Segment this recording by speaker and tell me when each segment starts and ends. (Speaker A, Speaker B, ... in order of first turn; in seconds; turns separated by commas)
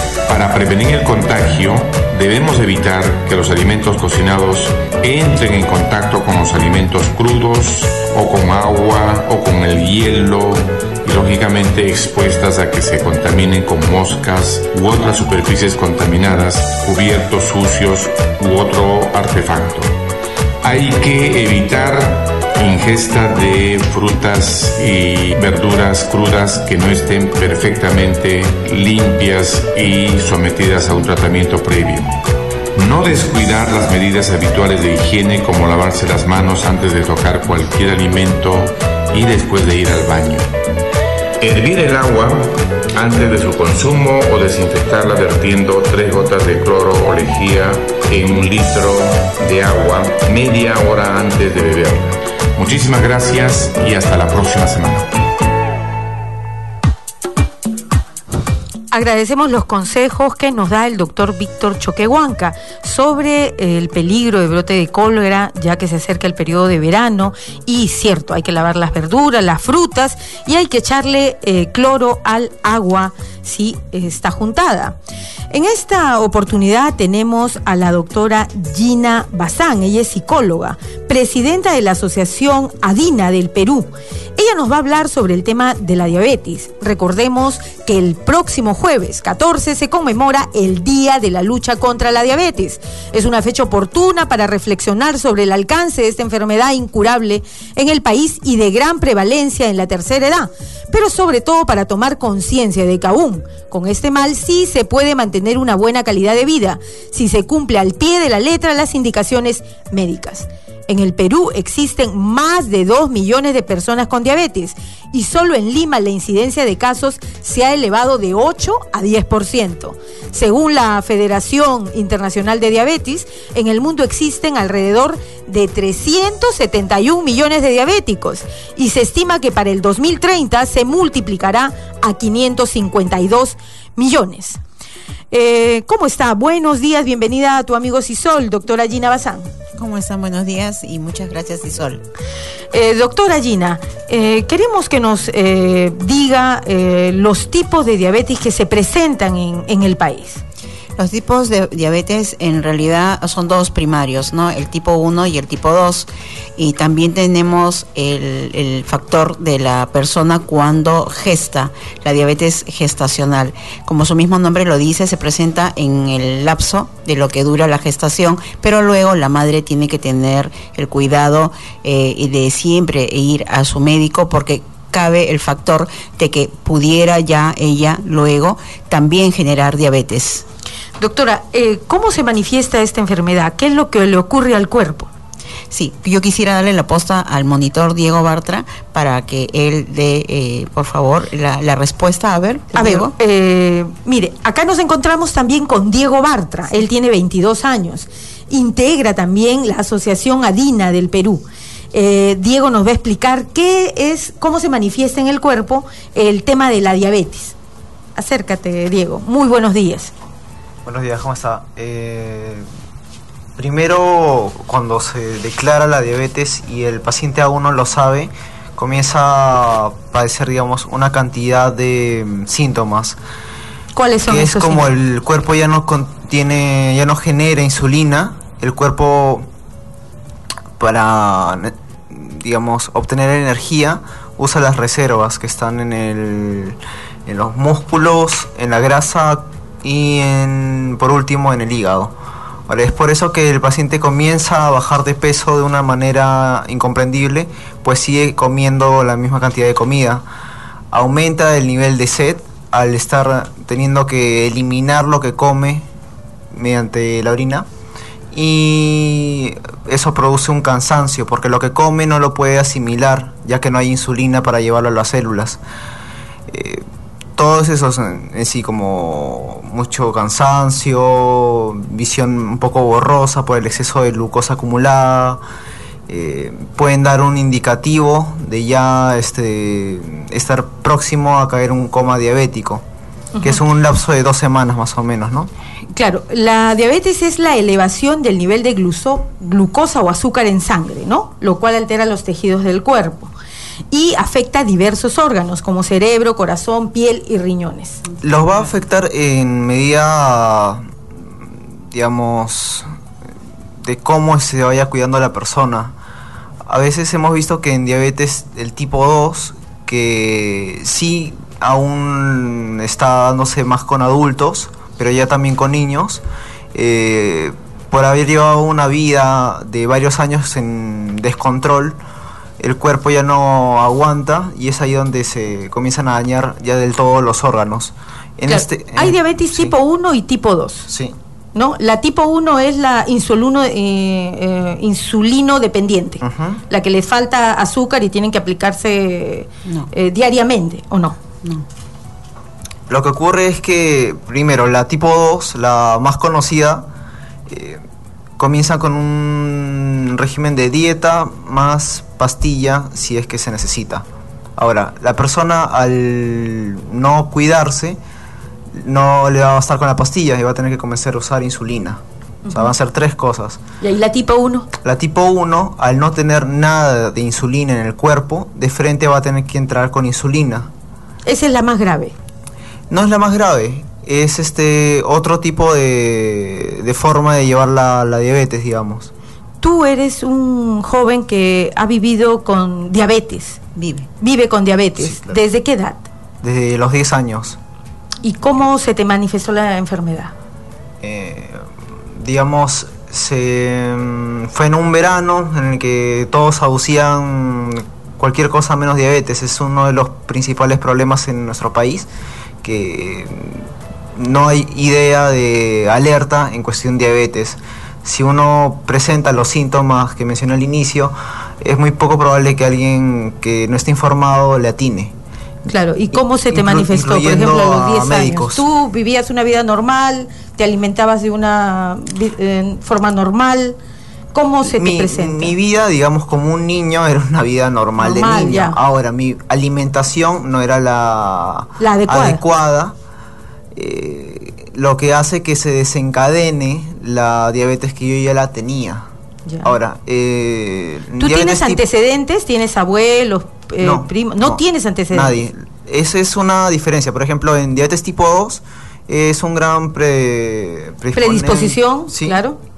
Speaker A: 0.3-19.9, Speaker A: 20.6-32.1, Speaker A: 32.8-40.5, Speaker A: 41.4-55.1, Speaker B: 58.9-75.0, Speaker B: 75.5-134.6, Speaker B: 135.3-139.5, Speaker C: 139.8-142.0, Speaker B: 142.7-150.4, Speaker C: 151.0-180.4, Speaker B: 181.0-185.1, Speaker C: 185.7-193.1, Speaker B: 192.8-207.6, Speaker B: 208.2-210.1, Speaker D: 210.8-212.7, Speaker D: 213.6-223.2, Speaker B: 223.9-224.9, Speaker D: 224.3-229.5, Speaker D: 230.8-242.1, Speaker D: 242.7-250.2, Speaker D: 250.9-255.9, Speaker D: 256.5-257.7, Speaker D: 258.3-265.6, Speaker D: 266.5-266.8, Speaker D: 267.4-275.4, Speaker D: 276.1-282.8, Speaker B: 283.4-283.6, Speaker D: 283.4-285.5, Speaker B: 285.9-293.3, Speaker B: 293.9-298.0, Speaker D: 298.2-300.8, Speaker D: 301.9-302.9, Speaker D: 303.8-305.9, Speaker D: 306.7-316.2, Speaker D: 316.7-322.0, Speaker D: 322.6-329.7, Speaker B: 328.5-330.9, Speaker D: 330.9-331.2, Speaker B: 331.5-341.2, Speaker D: 336.2-336.6, Speaker D: 342.9-346.9, Speaker D: 347.5-347.8, Speaker D: 348.4-354.1, Speaker D: 354.6-358.0, Speaker D: 358.8-363.6, Speaker B: 362.5-362.7, Speaker B: 363.8-364.7, Speaker D: 364.8-370.7, Speaker B: 371.2-372.1, Speaker D: 372.9-379.1, Speaker B: 379.6-383.6, Speaker C: 383.8-384.1, Speaker B: 384.2-386.1, Speaker D: 385.0-385.4, Speaker D: 386.4-387.6, Speaker B: 388.2-390.3, Speaker D: 391.0-391.6, Speaker D: 392.2-402.1, Speaker D: 402.6-403.6, Speaker D: 404.2-415.1, Speaker B: 415.7-423.8, Speaker D: 416.1-418.6, Speaker B: 424.3-425.6, Speaker D: 424.6-432.9, Speaker B: 428.0-428.8, Speaker B: 431.8-432.4, Speaker D: 433.7-439.1, Speaker B: 439.5-439.7, Speaker D: 439.6-441.8, Speaker B: 441.2-445.4, Speaker D: 443.8-452.4, Speaker B: 451.1-452.6